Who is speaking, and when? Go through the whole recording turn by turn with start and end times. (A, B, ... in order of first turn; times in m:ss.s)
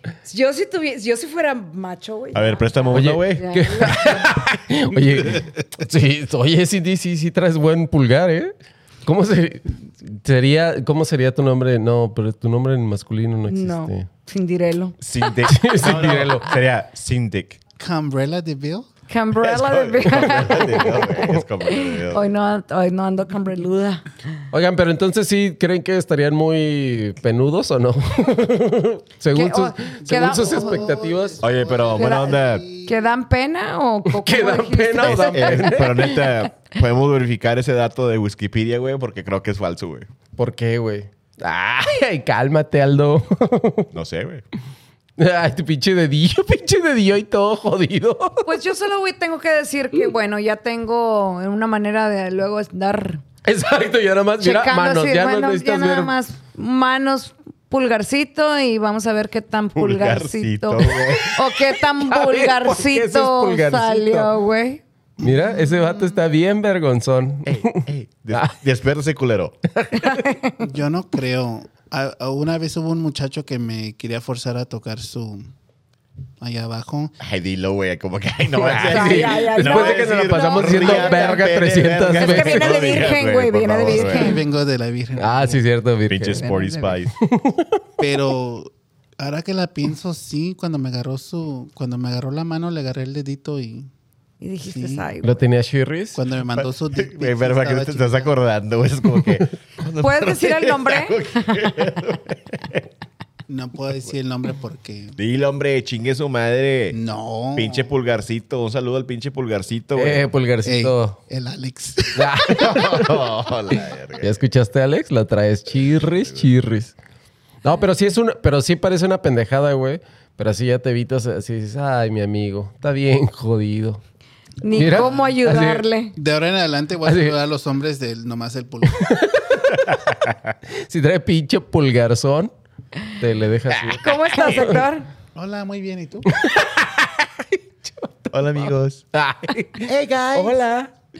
0:00.2-0:04.3 A
0:02.3-0:03.5 B
0:02.9-0:08.5 C
0:09.0-0:14.1 C
0:13.5-0:15.4 A
0:15.0-0:17.6 B
0:15.5-0:16.5 C
0:17.8-0:18.9 D
0:19.1-0:24.1 A
0:19.4-0:22.3 B
0:21.2-0:21.4 C
0:24.5-0:31.4 C
0:29.3-0:30.9 A
0:30.0-0:33.1 D
0:31.4-0:32.6 B
0:32.0-0:35.8 A
0:34.0-0:36.3 C
0:35.0-0:40.1 B
0:40.4-0:43.9 C
0:43.9-0:44.4 B
0:45.2-0:48.5 C
0:48.4-0:53.2 A
0:53.4-0:56.1 C
0:54.4-1:04.8 A
0:59.8-1:01.4 B
1:01.8-1:04.3 C
1:05.2-1:08.5 C
1:07.4-1:09.6 B
1:09.7-1:10.2 C
1:10.0-1:10.6 A
1:10.6-1:15.5 D
1:16.4-1:17.1 D
1:17.2-1:24.4 B
1:18.5-1:22.9 C
1:18.8-1:21.4 A
1:22.1-1:24.4 A
1:23.8-1:25.6 D
1:25.2-1:26.5 C
1:26.1-1:27.1 B
1:26.3-1:27.0 A
1:27.2-1:27.8 C
1:28.0-1:33.9 D
1:34.4-1:35.4 A
1:34.6-1:35.1 D
1:35.2-1:36.2 C
1:36.1-1:38.3 D
1:36.5-1:42.8 B
1:40.0-1:41.7 A
1:43.5-1:45.2 D
1:45.2-1:47.0 B
1:46.9-1:47.9 D
1:47.5-1:50.3 B
1:49.9-1:51.2 C
1:50.6-1:53.0 D
1:52.1-1:53.2 C
1:52.5-1:54.4 B
1:54.2-1:56.9 C
1:56.0-1:56.5 B
1:57.6-2:04.0 C
2:04.6-2:06.2 A
2:04.7-2:05.9 C
2:04.8-2:05.3 D
2:06.2-2:09.0 D
2:07.0-2:07.3 C
2:08.8-2:10.0 C
2:09.9-2:10.3 B
2:10.7-2:12.5 C
2:13.2-2:14.8 C
2:13.7-2:14.0 B
2:14.0-2:15.1 A
2:15.3-2:16.3 D
2:16.2-2:18.3 C
2:18.3-2:19.0 B
2:19.1-2:20.9 C
2:19.8-2:20.7 B